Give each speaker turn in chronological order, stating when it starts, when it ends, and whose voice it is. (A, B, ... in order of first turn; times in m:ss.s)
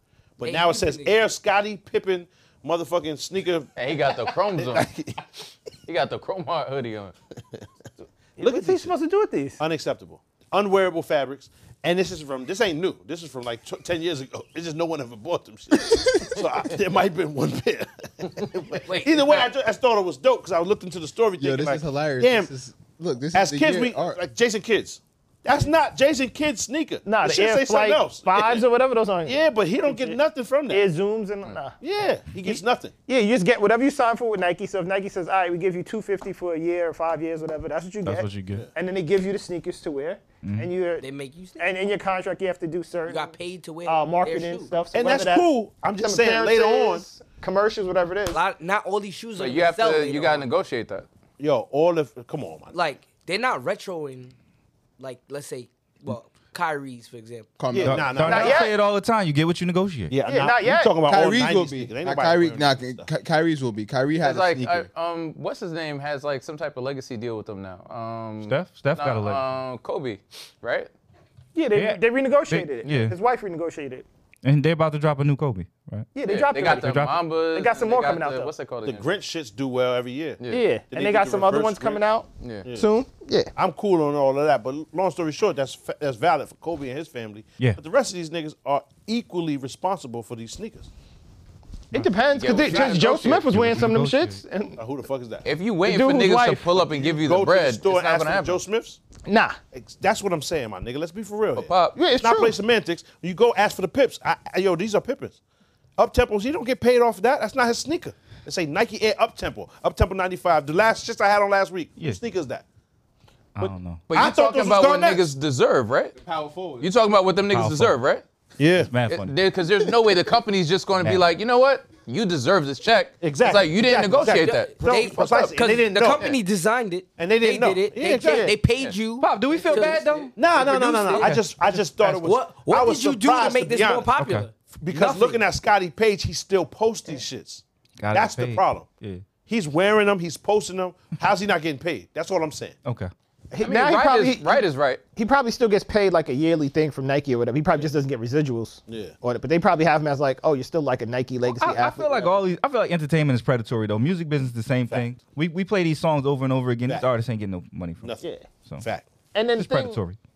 0:00.4-0:03.7 A
0:00.4-0:01.2 B
0:03.8-0:04.8 C
0:04.6-0:05.3 A
0:05.9-0:07.1 C
0:08.4-0:09.6 D
0:08.4-0:08.9 A
0:09.6-0:22.5 A
0:18.9-0:19.4 B
0:18.9-0:19.5 C
0:21.4-0:24.2 E
0:23.3-0:28.6 A
0:27.0-0:31.8 D
0:29.2-0:30.9 A
0:31.8-0:32.9 A
0:32.4-0:41.0 D
0:38.0-0:38.7 F
0:40.4-0:40.7 F
0:41.0-0:41.7 B
0:41.6-0:48.4 D
0:43.1-0:44.8 B
0:44.9-0:47.0 A
0:48.3-0:50.5 B
0:49.4-0:51.1 C
0:51.4-0:52.7 A
0:52.7-0:54.4 B
0:55.0-0:57.6 B
0:57.6-0:58.3 E
0:57.7-0:58.7 A
0:57.8-1:00.1 F
0:58.2-0:58.7 D
1:00.1-1:03.1 A
1:00.2-1:01.0 D
1:01.1-1:04.9 E
1:04.2-1:10.9 C
1:08.4-1:09.4 F
1:11.6-1:14.0 D
1:11.7-1:13.2 F
1:14.4-1:16.1 F
1:16.2-1:18.5 D
1:16.3-1:19.1 C
1:16.6-1:17.2 F
1:18.8-1:22.0 A
1:20.5-1:23.5 D
1:23.6-1:30.9 A
1:31.9-1:34.8 D
1:32.3-1:33.5 C
1:33.5-1:34.4 F
1:34.8-1:35.5 A
1:35.4-1:38.6 C
1:35.8-1:36.8 D
1:36.9-1:39.0 A
1:39.2-1:39.6 D
1:39.7-1:45.4 A
1:41.6-1:42.0 C
1:42.0-1:42.6 D
1:46.0-1:52.6 A
1:53.6-1:54.0 F
1:54.1-1:56.2 C
1:54.1-1:55.3 A
1:56.2-1:56.9 E
1:56.8-1:58.2 C
1:57.5-1:58.0 F
1:58.6-1:58.9 A
1:58.8-1:59.3 F
1:59.2-2:05.6 C
2:03.2-2:06.2 A
2:04.2-2:11.4 B
2:04.8-2:05.1 D
2:07.2-2:08.5 A
2:08.2-2:08.6 D
2:09.2-2:10.3 F
2:10.4-2:14.1 A
2:11.2-2:11.5 F
2:11.9-2:15.4 B
2:14.2-2:14.5 F
2:14.7-2:18.9 A
2:18.0-2:19.2 F
2:19.4-2:22.8 A
2:22.8-2:23.1 F
2:23.5-2:32.3 D
2:23.6-2:25.0 C
2:28.9-2:29.2 A
2:31.6-2:38.1 F
2:38.8-2:39.1 A
2:39.3-2:40.0 D
2:39.6-2:40.2 F